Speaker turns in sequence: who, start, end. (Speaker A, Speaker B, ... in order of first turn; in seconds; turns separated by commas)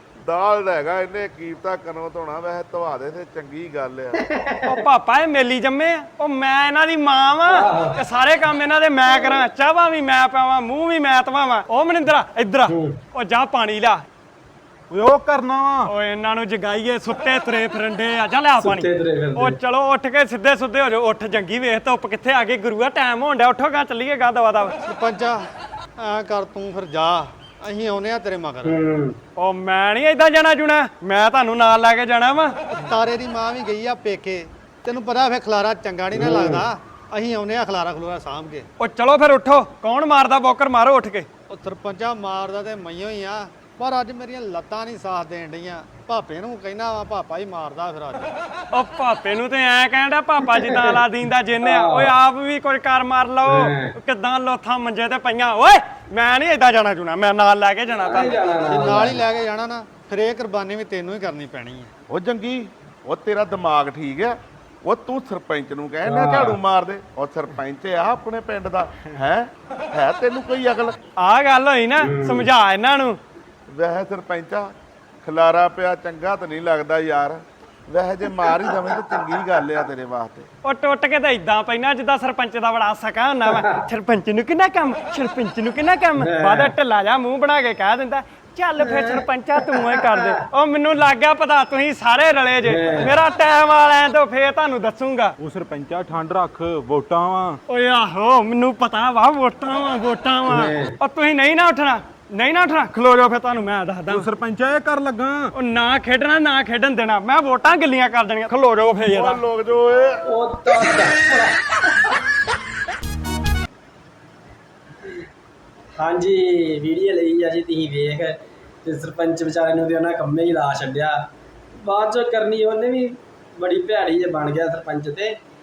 Speaker A: 0.2-4.2, Speaker B: 4.2-4.7, Speaker C: 4.7-14.0, Speaker B: 7.5-8.0, Speaker B: 12.7-13.0, Speaker D: 14.9-15.9, Speaker C: 15.9-24.8, Speaker B: 18.6-19.6, Speaker E: 24.8-25.4, Speaker E: 26.0-28.8, Speaker B: 28.6-29.2, Speaker C: 29.4-32.6, Speaker E: 32.7-38.7, Speaker B: 36.1-36.7, Speaker C: 38.8-41.3, Speaker E: 41.5-48.3, Speaker C: 48.7-58.4, Speaker B: 51.6-52.1, Speaker B: 53.5-53.9, Speaker B: 58.0-59.2, Speaker E: 58.6-61.9, Speaker A: 62.1-71.0, Speaker B: 66.0-66.6, Speaker C: 71.2-73.2, Speaker B: 72.0-72.5, Speaker A: 73.7-74.7, Speaker A: 75.2-80.5, Speaker C: 80.6-95.3, Speaker B: 83.5-83.8, Speaker B: 86.2-86.7, Speaker B: 88.8-90.2, Speaker B: 92.7-93.1, Speaker D: 95.4-97.6, Speaker C: 97.7-104.3, Speaker B: 100.5-100.9, Speaker D: 104.1-105.5, Speaker C: 105.5-109.4, Speaker A: 109.1-110.2, Speaker B: 110.2-111.6, Speaker B: 116.0-121.3, Speaker B: 121.8-125.4